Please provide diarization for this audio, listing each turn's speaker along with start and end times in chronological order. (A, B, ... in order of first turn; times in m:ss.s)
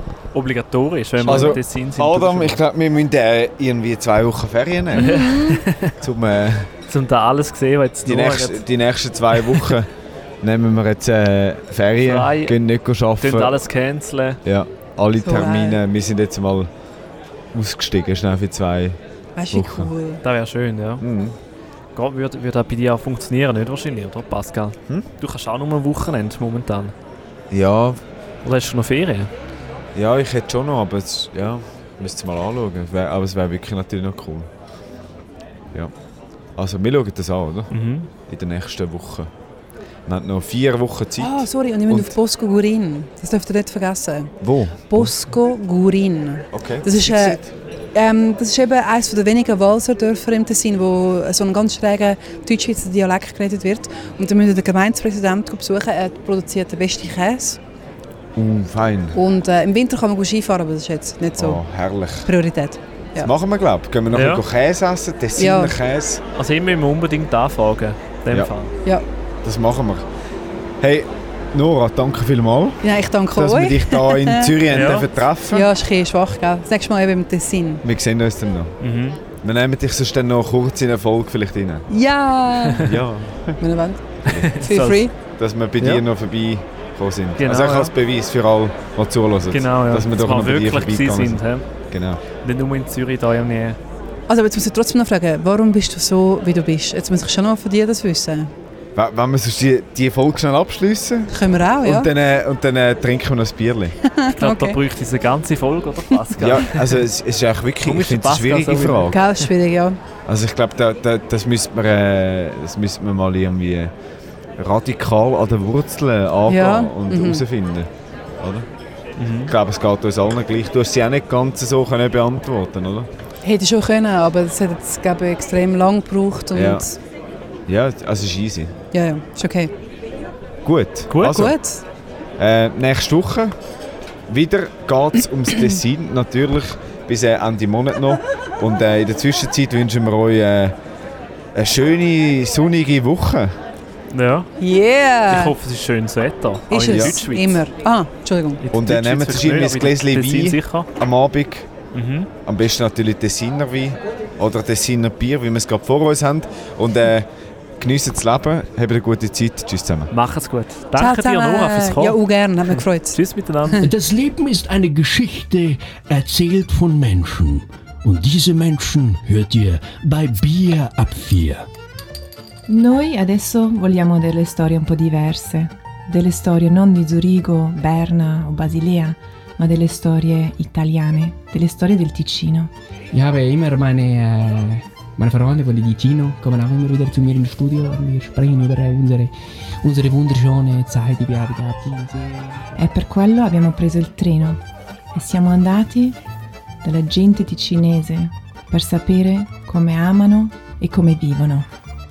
0:00.3-0:02.6 A
0:01.2-0:01.6 B
0:01.2-0:05.2 C
0:05.0-0:05.6 B
0:05.0-0:05.9 A
0:06.0-0:06.7 C
0:06.9-0:08.6 A
0:08.0-0:13.6 C
0:12.0-0:12.6 A
0:13.2-0:14.4 A
0:14.4-0:16.7 C
0:15.2-0:15.8 B
0:17.5-0:19.0 C
0:19.4-0:20.2 B
0:19.5-0:19.9 C
0:20.2-0:21.0 A
0:21.0-0:21.3 C
0:21.9-0:26.9 A
0:27.5-0:28.0 C
0:28.4-0:29.3 A
0:29.9-0:34.5 C
0:36.6-0:37.7 C
0:37.7-0:38.1 A
0:38.3-0:39.3 C
0:40.1-0:42.1 C
0:41.2-0:44.3 B
0:44.4-0:45.1 C
0:44.9-0:47.4 B
0:46.5-0:47.5 C
0:47.9-0:57.6 B
0:58.4-0:59.2 C
0:59.1-1:01.6 B
1:01.4-1:02.3 C
1:02.3-1:03.3 B
1:03.2-1:06.2 C
1:04.1-1:04.4 A
1:05.4-1:05.8 B
1:06.4-1:08.7 A
1:09.4-1:10.0 C
1:10.8-1:12.8 C
1:12.8-1:17.8 B
1:13.3-1:15.7 C
1:14.7-1:15.0 A
1:17.8-1:18.8 C
1:18.8-1:19.2 A
1:19.4-1:21.9 C
1:21.9-1:22.9 B
1:22.8-1:23.6 C
1:23.6-1:25.1 B
1:24.2-1:24.6 C
1:24.3-1:25.0 A
1:25.4-1:32.2 C
1:27.4-1:27.9 A
1:29.5-1:31.6 A
1:32.4-1:33.8 A
1:34.3-1:38.5 B
1:38.9-1:44.0 C
1:41.3-1:42.1 B
1:44.1-1:44.8 B
1:44.4-1:47.0 A
1:46.4-1:49.2 C
1:47.8-1:49.5 A
1:49.1-1:50.0 B
1:50.3-1:53.9 C
1:54.6-1:57.9 C
1:56.5-1:57.4 B
1:58.4-1:58.7 C
1:59.2-1:59.5 A
1:59.4-2:03.1 C
2:03.4-2:06.9 B
2:06.5-2:06.9 C
2:07.7-2:08.7 C
2:08.9-2:09.7 B
2:10.6-2:11.6 C
2:11.2-2:11.8 B
2:12.4-2:13.6 C
2:14.3-2:20.8 C
2:21.6-2:23.6 C
2:24.1-2:24.5 A
2:24.6-2:25.5 B
2:25.3-2:27.6 A
2:26.7-2:28.6 B
2:26.9-2:27.2 C
2:28.6-2:30.9 A
2:28.7-2:31.7 C
2:31.9-2:32.3 A
2:32.4-2:40.1 C
2:40.1-2:42.2 A
2:41.0-2:43.2 B
2:42.7-2:43.8 A
2:43.8-2:51.6 D
2:52.7-3:02.7 E
3:03.1-3:12.8 F
3:12.8-3:14.6 E
3:15.1-3:16.2 E
3:16.8-3:21.7 E